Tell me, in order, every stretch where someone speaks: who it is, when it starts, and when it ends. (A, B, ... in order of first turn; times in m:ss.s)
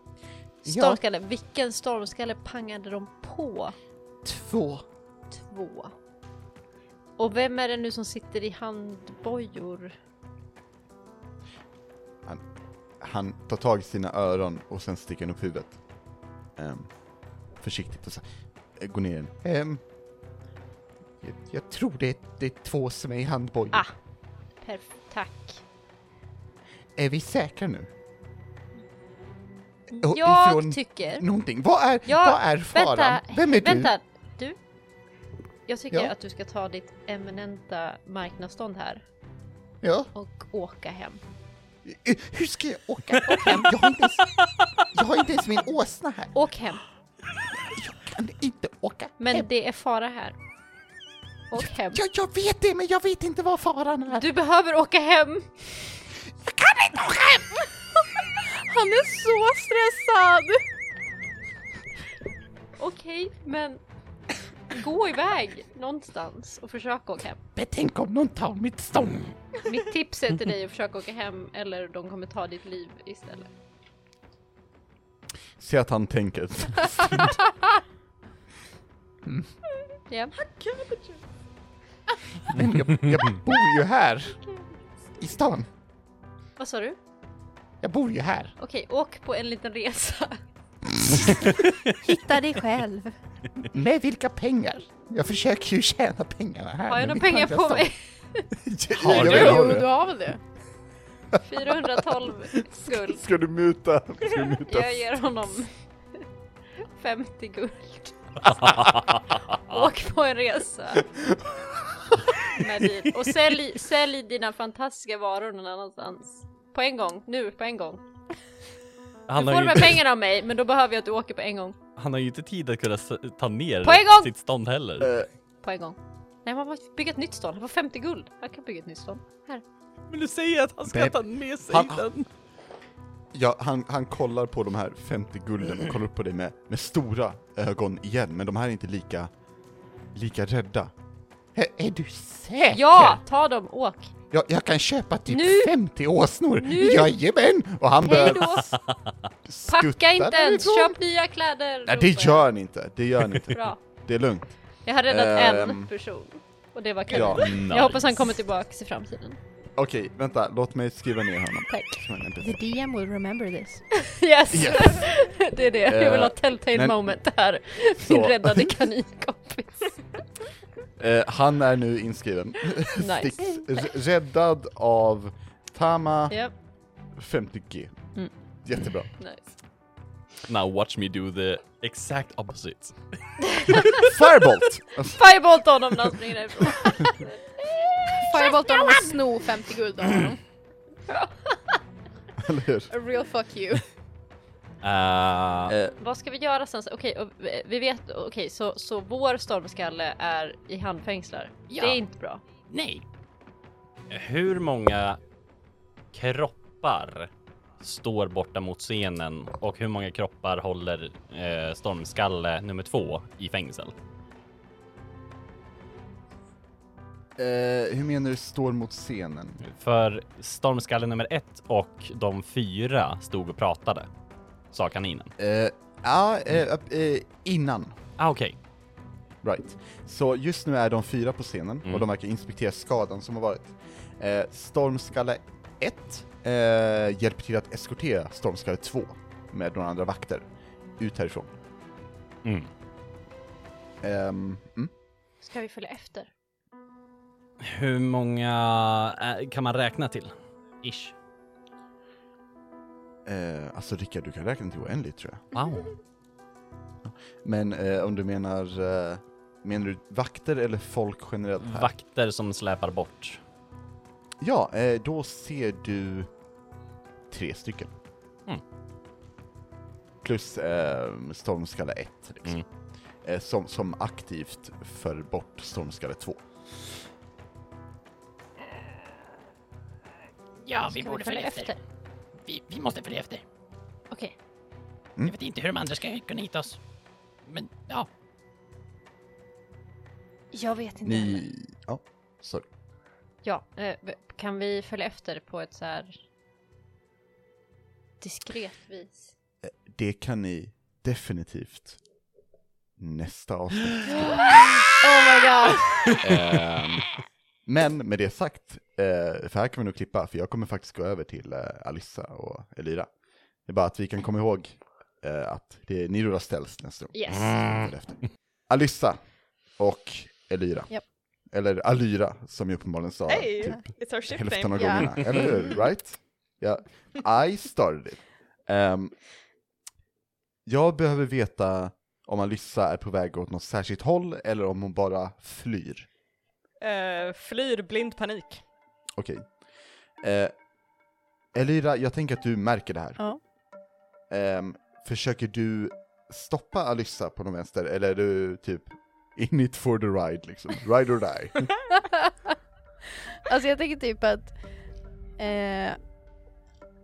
0:00.6-0:03.8 A
0:00.6-0:01.0 B
0:04.2-0:04.9 B
0:05.3-0:05.9 A
0:07.2-0:10.0 A
0:13.0-0:15.8 B
0:16.6-0:16.9 B
0:17.6-0:18.2 B
0:18.8-0:19.8 B
0:21.2-0:23.8 B
0:24.6-0:25.6 A
0:27.0-0:27.9 B
0:29.9-0:31.3 A
0:30.0-0:33.9 B
0:32.1-0:34.6 A
0:35.7-0:39.0 A
0:39.8-0:40.1 B
0:40.2-0:41.2 A
0:41.8-0:44.3 B
0:43.3-0:43.7 A
0:44.9-0:46.3 B
0:46.3-0:46.8 A
0:47.4-0:49.5 B
0:49.2-0:50.4 A
0:51.5-0:52.0 A
0:51.6-0:54.3 B
0:54.1-0:55.9 A
0:56.4-0:57.5 B
0:58.4-1:00.6 C
1:02.8-1:03.8 A
1:04.7-1:07.4 A
1:07.6-1:09.2 B
1:09.6-1:13.5 A
1:15.6-1:17.4 B
1:19.2-1:19.5 B
1:20.1-1:20.4 A
1:20.4-1:21.2 D
1:22.5-1:24.4 B
1:25.2-1:25.7 B
1:26.6-1:27.0 A
1:27.8-1:28.5 B
1:28.6-1:30.4 A
1:30.9-1:31.3 B
1:31.6-1:31.9 E
1:32.0-1:33.2 C
1:33.6-1:37.9 B
1:36.9-1:38.5 A
1:38.5-1:39.9 B
1:39.0-1:40.4 C
1:39.0-1:39.8 E
1:41.3-1:45.1 B
1:41.4-1:43.2 A
1:44.6-1:45.7 A
1:46.8-1:48.6 A
1:48.4-1:49.8 E
1:49.5-1:51.1 A
1:51.0-1:52.8 B
1:52.4-1:58.0 A
1:59.3-2:00.0 E
1:59.4-2:01.8 A
2:02.0-2:05.1 E
2:03.8-2:04.3 A
2:05.0-2:05.3 B
2:05.6-2:09.6 A
2:10.1-2:12.1 E
2:10.9-2:12.1 B
2:13.3-2:19.3 B
2:20.1-2:20.9 B
2:21.6-2:23.2 B
2:22.7-2:24.1 A
2:24.3-2:28.7 B
2:25.3-2:25.8 A
2:26.6-2:27.1 A
2:28.0-2:28.8 A
2:28.7-2:29.1 E
2:29.4-2:31.0 B
2:29.7-2:32.5 A
2:31.9-2:35.9 B
2:33.5-2:33.8 A
2:34.8-2:39.4 A
2:37.1-2:37.7 B
2:37.2-2:38.1 E
2:39.8-2:42.6 B
2:42.4-2:43.8 C
2:43.9-2:50.2 A
2:44.5-2:45.1 B
2:45.8-2:47.2 B
2:48.0-2:48.9 B
2:51.0-2:56.4 B
2:53.0-2:53.9 A
2:57.2-2:57.9 B
2:58.6-2:59.1 B
2:59.1-2:59.5 A
3:00.5-3:03.0 E
3:03.5-3:03.9 A
3:03.6-3:04.1 E
3:04.0-3:05.3 B
3:05.1-3:09.1 A
3:08.1-3:10.4 C
3:11.1-3:11.8 A
3:12.4-3:12.9 B
3:12.9-3:13.8 C
3:14.8-3:15.8 E
3:15.7-3:16.0 B
3:16.0-3:22.4 A
3:21.7-3:22.0 F
3:22.7-3:23.0 F
3:24.1-3:25.2 E
3:26.1-3:34.0 E
3:37.4-3:39.6 B
3:39.6-3:44.1 E
3:44.7-3:45.3 E
3:45.4-3:48.0 B
3:48.2-3:48.6 E
3:49.4-4:00.5 B
4:01.0-4:01.5 B
4:02.4-4:02.7 E
4:04.0-4:04.9 B
4:05.4-4:06.3 A
4:07.6-4:11.2 E
4:13.2-4:15.5 B
4:15.5-4:15.9 E
4:17.0-4:21.9 B
4:21.6-4:23.4 E
4:24.4-4:26.3 B
4:27.3-4:27.9 B
4:30.2-4:32.6 B
4:33.2-4:36.4 B
4:40.6-4:41.8 F
4:40.9-4:41.8 A
4:42.4-4:43.4 F
4:45.2-4:46.8 F
4:47.5-4:48.1 F
4:50.5-4:51.5 A
4:51.0-4:52.7 B
4:53.4-4:56.2 A
4:58.2-4:59.3 A
4:59.6-5:02.0 B
5:03.0-5:04.4 B
5:04.1-5:06.0 A
5:05.0-5:05.8 C
5:06.2-5:07.1 B
5:07.7-5:13.1 B
5:13.6-5:19.2 B
5:17.1-5:17.8 A
5:19.8-5:29.2 B
5:23.3-5:25.6 D
5:24.8-5:25.1 C
5:30.7-5:36.1 B
5:36.8-5:38.6 D
5:39.2-5:39.5 B
5:40.2-5:40.5 B
5:41.5-5:43.2 B
5:44.3-5:51.7 B
5:52.0-5:52.3 C
5:53.4-5:54.6 C
5:55.4-5:56.0 C